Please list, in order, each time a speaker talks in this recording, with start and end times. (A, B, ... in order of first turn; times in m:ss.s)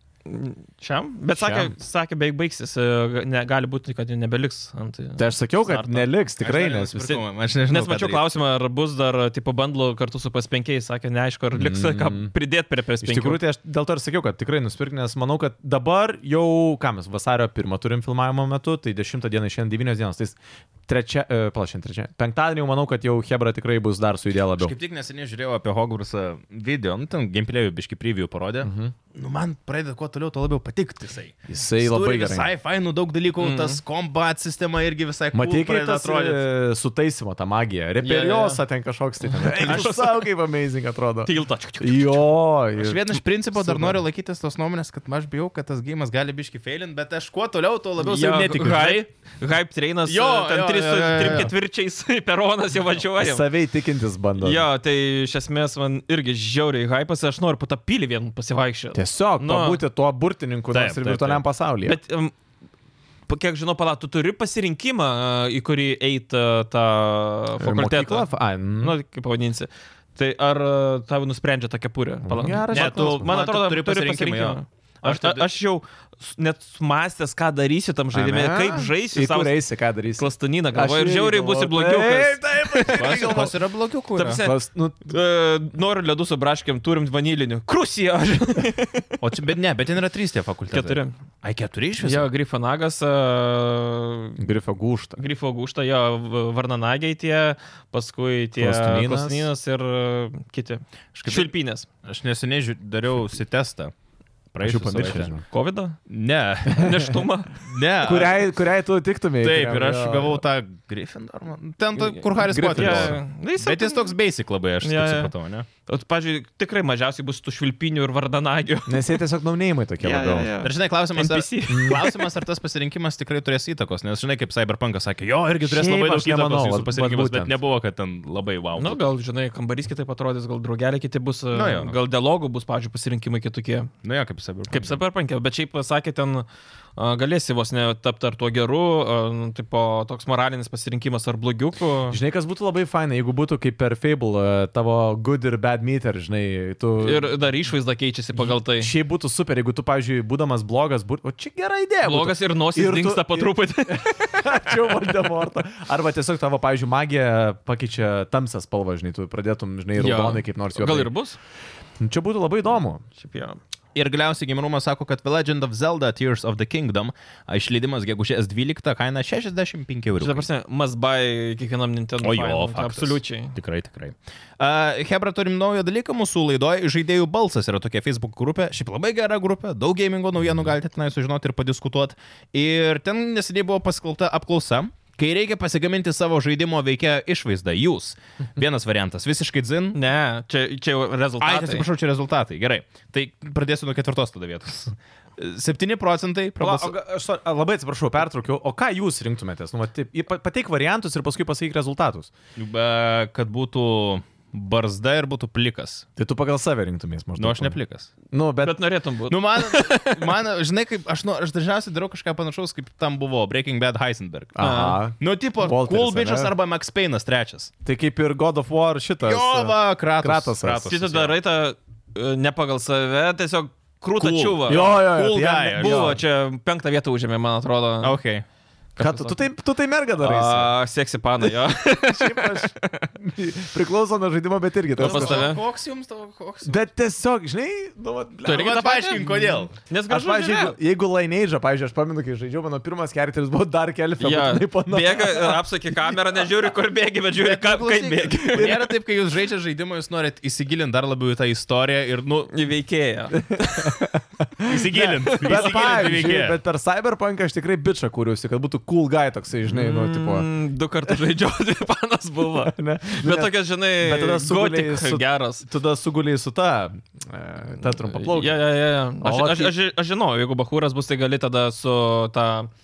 0:00.3-0:06.1 A
0:01.3-0:01.7 B
0:05.2-0:07.2 B
0:06.4-0:08.3 C
0:07.7-0:13.4 A
0:11.6-0:12.3 B
0:13.0-0:24.8 B
0:24.6-0:36.4 C
0:28.6-0:28.9 B
0:31.5-0:32.5 B
0:33.4-0:33.8 A
0:35.3-0:43.0 B
0:38.0-0:38.6 A
0:39.2-0:40.2 A
0:39.6-0:39.9 C
0:41.2-0:42.2 A
0:42.8-0:49.1 C
0:43.6-0:44.0 B
0:48.0-0:53.4 A
0:50.1-0:51.5 C
0:53.2-0:54.7 B
0:54.4-0:59.8 A
0:58.9-1:02.0 B
1:00.7-1:01.4 C
1:01.8-1:02.3 A
1:03.3-1:19.6 A
1:07.6-1:09.0 B
1:12.2-1:13.3 B
1:12.7-1:15.5 C
1:18.1-1:23.5 B
1:20.2-1:23.3 A
1:22.9-1:24.4 C
1:24.2-1:29.1 A
1:24.3-1:25.1 B
1:29.2-1:32.3 C
1:30.7-1:31.2 A
1:32.0-1:34.4 A
1:34.4-1:35.2 B
1:35.2-1:41.9 A
1:38.6-1:39.5 B
1:41.1-1:41.5 C
1:42.0-1:43.9 C
1:44.5-1:45.3 C
1:44.6-1:45.4 B
1:45.4-1:46.0 A
1:46.1-1:47.0 C
1:46.7-1:47.8 A
1:47.6-1:48.5 C
1:48.0-1:50.4 B
1:49.4-1:55.7 C
1:52.0-1:54.1 A
1:52.4-1:53.2 B
1:54.8-1:55.3 A
1:55.8-1:59.2 A
1:58.9-2:00.5 B
2:00.0-2:02.3 A
2:00.6-2:09.0 C
2:01.7-2:02.0 B
2:05.6-2:07.5 B
2:08.8-2:13.9 A
2:11.5-2:12.0 C
2:14.0-2:15.0 C
2:14.7-2:16.5 A
2:17.0-2:22.2 A
2:22.1-2:27.3 B
2:27.0-2:28.9 A
2:28.4-2:41.1 B
2:32.0-2:35.0 A
2:40.0-2:41.4 A
2:42.0-2:43.0 B
2:43.2-2:43.6 A
2:44.0-2:50.5 C
2:50.2-2:53.6 A
2:52.2-3:10.0 C
3:09.9-3:11.9 A
3:11.4-3:16.9 C
3:16.6-3:22.3 B
3:22.6-3:26.1 C
3:26.2-3:27.8 B
3:27.4-3:28.1 C
3:28.3-3:28.8 B
3:28.6-3:30.3 A
3:29.3-3:34.6 C
3:34.6-3:36.5 B
3:34.6-3:35.0 A
3:35.2-3:37.7 C
3:37.8-3:40.9 B
3:39.2-3:41.4 C
3:40.8-3:44.9 A
3:44.2-3:46.2 C
3:44.7-3:46.2 B
3:45.7-3:48.2 A
3:48.0-3:48.4 C
3:49.0-3:49.4 A
3:49.0-3:50.7 B
3:50.2-3:53.1 A
3:51.4-3:55.5 B
3:55.0-3:56.8 C
3:55.0-3:55.6 A
3:56.7-3:59.5 B
3:58.4-4:00.8 A
3:58.5-3:59.7 C
4:00.1-4:05.6 B
4:04.2-4:08.8 A
4:07.4-4:12.5 C
4:08.6-4:08.9 B
4:12.5-4:14.2 A
4:13.5-4:20.5 B
4:14.7-4:16.6 C
4:15.3-4:15.8 A
4:19.7-4:25.6 A
4:22.6-4:28.6 B
4:28.0-4:32.7 A
4:29.2-4:29.7 B